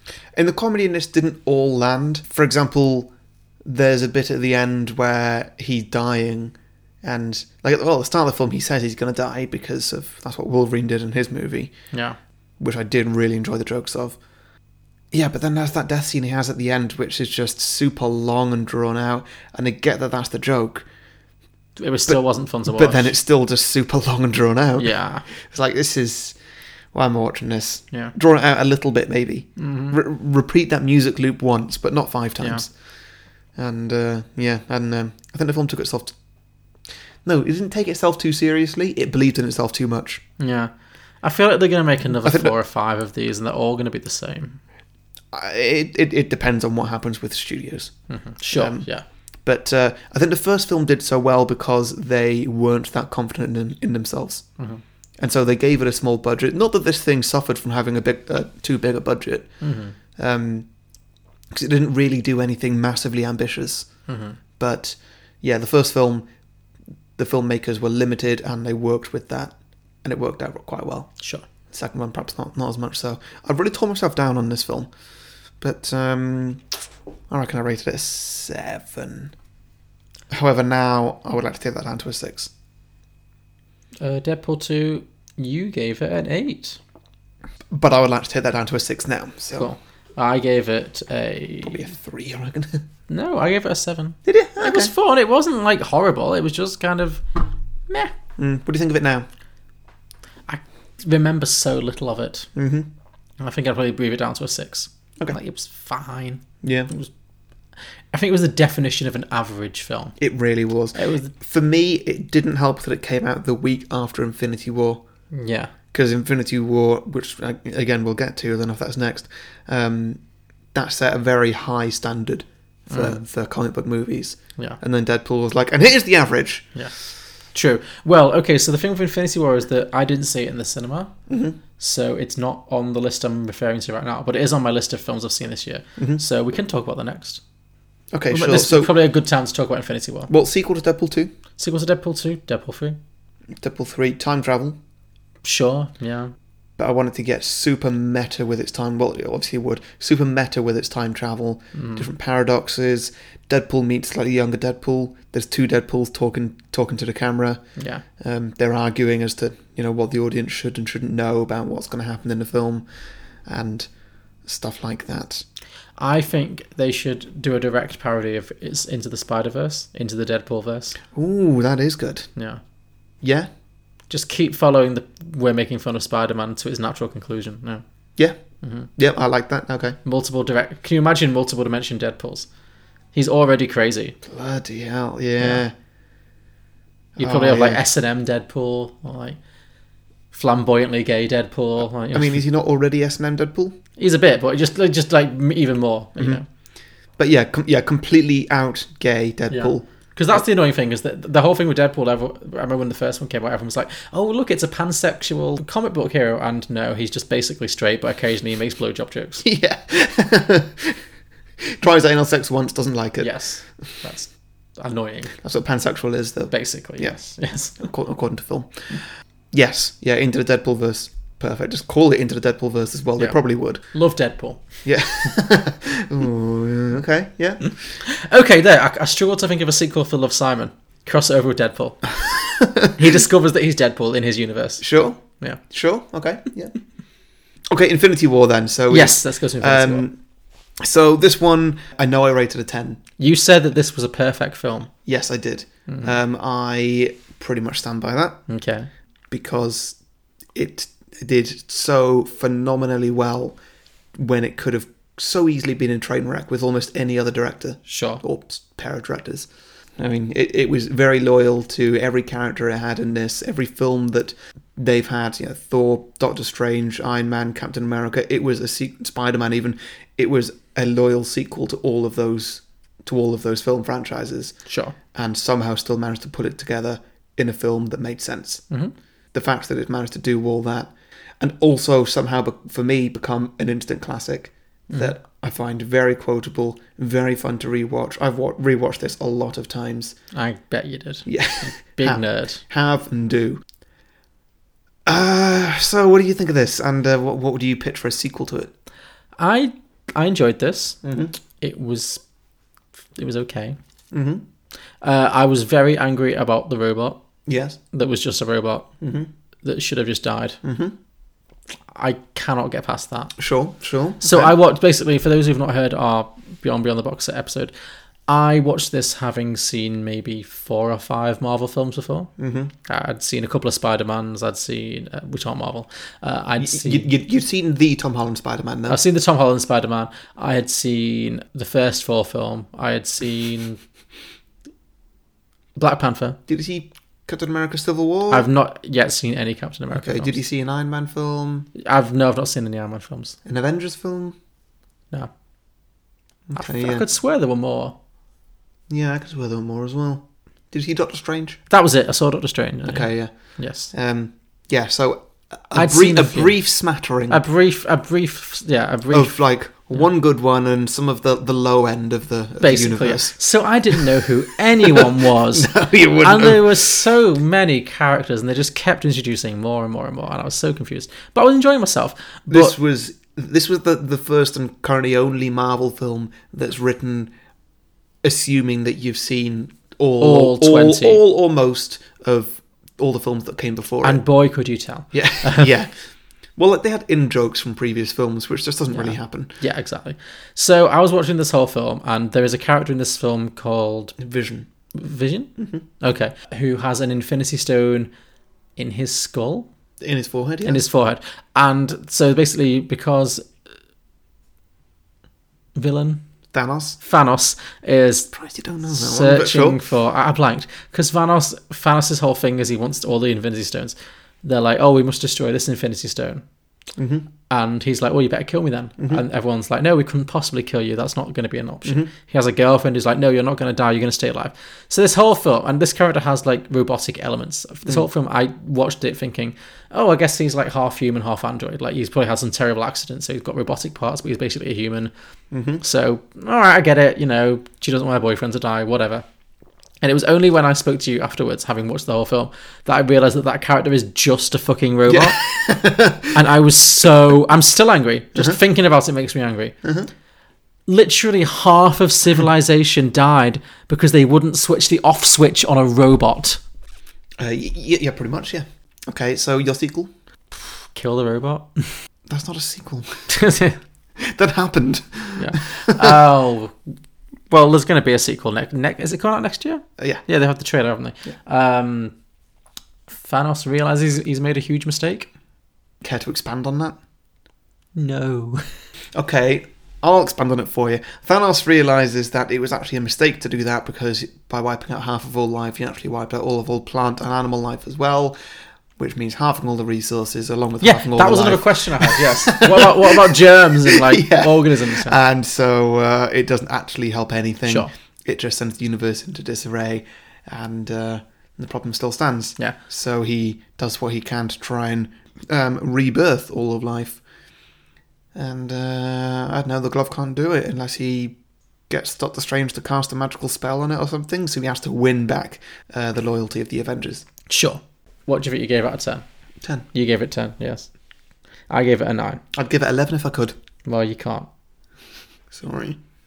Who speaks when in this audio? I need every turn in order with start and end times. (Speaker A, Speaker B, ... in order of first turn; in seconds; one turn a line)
Speaker A: 0.3-3.1
Speaker A: 3.6-11.7
Speaker B: 11.9-12.2
Speaker A: 12.6-14.2
Speaker A: 15.1-20.9
Speaker B: 21.8-23.1
Speaker A: 22.1-26.4
Speaker B: 24.8-25.3
Speaker A: 26.9-32.7
Speaker B: 29.6-30.0
Speaker B: 32.4-32.6
Speaker A: 33.5-36.2
Speaker A: 37.2-40.2
Speaker B: 40.4-44.6
Speaker A: 42.2-42.5
Speaker A: 45.3-54.6
Speaker B: 48.1-49.0
Speaker A: 55.2-60.7
Speaker B: 59.6-60.0
Speaker A: 61.5-63.9
Speaker B: 64.1-64.4
Speaker A: 64.6-66.3
Speaker A: 67.2-71.2
Speaker A: 71.7-74.9
Speaker A: 75.6-76.8
Speaker A: 77.3-79.3
Speaker A: 80.3-82.5
Speaker B: 84.0-86.8
Speaker A: 87.7-89.7
Speaker B: 89.5-91.8
Speaker A: 91.7-92.8
Speaker B: 93.1-97.2
Speaker A: 94.2-94.9
Speaker B: 97.9-98.1
Speaker A: 98.4-99.3
Speaker B: 100.5-102.5
Speaker A: 102.6-102.9
Speaker B: 103.4-107.1
Speaker A: 106.6-106.9
Speaker B: 108.1-110.2
Speaker A: 110.2-115.0
Speaker B: 110.9-111.3
Speaker B: 115.3-115.7
Speaker A: 115.9-120.2
Speaker A: 120.7-126.7
Speaker B: 122.9-123.2
Speaker B: 127.5-131.2
Speaker A: 131.3-131.6
Speaker B: 131.8-137.4
Speaker A: 138.1-138.9
Speaker B: 138.3-140.3
Speaker A: 140.3-141.3
Speaker B: 141.6-143.0
Speaker A: 143.6-144.8
Speaker B: 145.4-146.3
Speaker A: 146.8-157.6
Speaker B: 151.7-152.1
Speaker B: 157.8-158.0
Speaker A: 158.2-162.9
Speaker A: 163.4-163.9
Speaker A: 164.4-165.4
Speaker B: 166.0-171.0
Speaker A: 171.1-172.3
Speaker B: 172.4-172.6
Speaker A: 173.2-173.5
Speaker B: 174.1-177.8
Speaker B: 178.6-178.9
Speaker A: 179.0-180.0
Speaker B: 180.1-182.5
Speaker B: 183.1-184.2
Speaker A: 184.3-185.7
Speaker B: 187.2-189.4
Speaker A: 187.2-187.8
Speaker B: 190.3-192.4
Speaker A: 192.1-193.8
Speaker B: 194.0-196.4
Speaker A: 196.2-196.4
Speaker A: 197.2-200.4
Speaker B: 199.5-209.5
Speaker A: 209.4-211.0
Speaker A: 211.6-213.4
Speaker B: 213.2-215.4
Speaker A: 215.4-217.2
Speaker B: 216.5-217.8
Speaker A: 217.8-223.8
Speaker B: 223.9-224.7
Speaker A: 224.8-227.7
Speaker B: 228.0-232.1
Speaker A: 232.2-232.9
Speaker B: 232.9-235.6
Speaker A: 234.8-236.7
Speaker A: 237.7-240.2
Speaker B: 238.9-240.1
Speaker A: 240.8-243.0
Speaker B: 243.2-244.9
Speaker A: 245.1-248.4
Speaker B: 245.9-246.1
Speaker B: 248.5-248.9
Speaker A: 249.3-250.0
Speaker A: 250.6-253.6
Speaker A: 254.2-274.6
Speaker B: 257.9-258.2
Speaker B: 274.7-274.9
Speaker A: 275.1-278.6
Speaker A: 279.3-290.2
Speaker B: 290.3-292.6
Speaker A: 291.3-293.6
Speaker A: 295.1-298.7
Speaker B: 299.4-301.0
Speaker A: 301.0-301.3
Speaker B: 301.6-302.2
Speaker B: 303.1-303.8
Speaker A: 304.1-304.4
Speaker B: 305.0-307.2
Speaker A: 307.5-307.8
Speaker B: 307.9-308.9
Speaker A: 309.0-309.3
Speaker B: 309.6-310.6
Speaker A: 310.6-310.9
Speaker B: 311.9-313.4
Speaker A: 313.4-314.6
Speaker B: 314.2-317.7
Speaker B: 318.3-322.3
Speaker A: 322.4-322.7
Speaker B: 322.9-327.1
Speaker A: 326.6-329.0
Speaker B: 328.9-333.8
Speaker B: 335.8-336.4
Speaker A: 336.5-338.5
Speaker B: 338.3-340.4
Speaker A: 339.9-341.7
Speaker B: 341.8-343.4
Speaker A: 343.4-344.4
Speaker A: 346.5-347.1
Speaker B: 346.6-347.9
Speaker A: 348.9-351.6
Speaker B: 351.7-353.9
Speaker A: 352.9-357.4
Speaker B: 355.7-356.6
Speaker B: 357.3-359.4
Speaker A: 359.1-363.4
Speaker B: 362.6-372.7
Speaker A: 363.9-364.2
Speaker A: 364.8-367.0
Speaker A: 372.5-377.3
Speaker A: 378.2-384.2
Speaker B: 380.2-381.2
Speaker B: 384.0-385.7
Speaker A: 385.1-389.5
Speaker B: 388.9-394.2
Speaker A: 394.2-394.7
Speaker B: 394.9-398.1
Speaker A: 395.6-395.8
Speaker B: 398.8-399.7
Speaker A: 400.0-400.8
Speaker B: 400.6-403.5
Speaker B: 405.8-406.2
Speaker A: 406.5-407.0
Speaker B: 407.0-408.3
Speaker A: 408.3-409.8
Speaker B: 408.9-416.4
Speaker A: 417.0-417.3
Speaker B: 417.5-435.1
Speaker A: 421.9-422.1
Speaker A: 435.5-435.8
Speaker B: 435.8-439.2
Speaker B: 440.0-445.4
Speaker A: 445.1-446.3
Speaker B: 446.3-449.8
Speaker A: 449.8-450.1
Speaker B: 450.9-456.6
Speaker A: 457.4-460.1
Speaker B: 460.9-461.9
Speaker A: 462.3-463.3
Speaker B: 463.3-463.8
Speaker A: 464.2-466.2
Speaker B: 465.4-466.8
Speaker B: 467.5-472.1
Speaker A: 470.0-470.2
Speaker B: 473.1-475.3
Speaker A: 476.0-477.0
Speaker B: 477.9-478.6
Speaker A: 479.1-488.4
Speaker A: 489.0-507.2
Speaker B: 490.8-495.1
Speaker A: 508.3-511.4
Speaker A: 511.9-517.2
Speaker B: 517.5-519.2
Speaker B: 519.9-520.9
Speaker B: 521.7-522.4
Speaker A: 522.5-523.5
Speaker B: 523.9-524.5
Speaker A: 525.5-526.0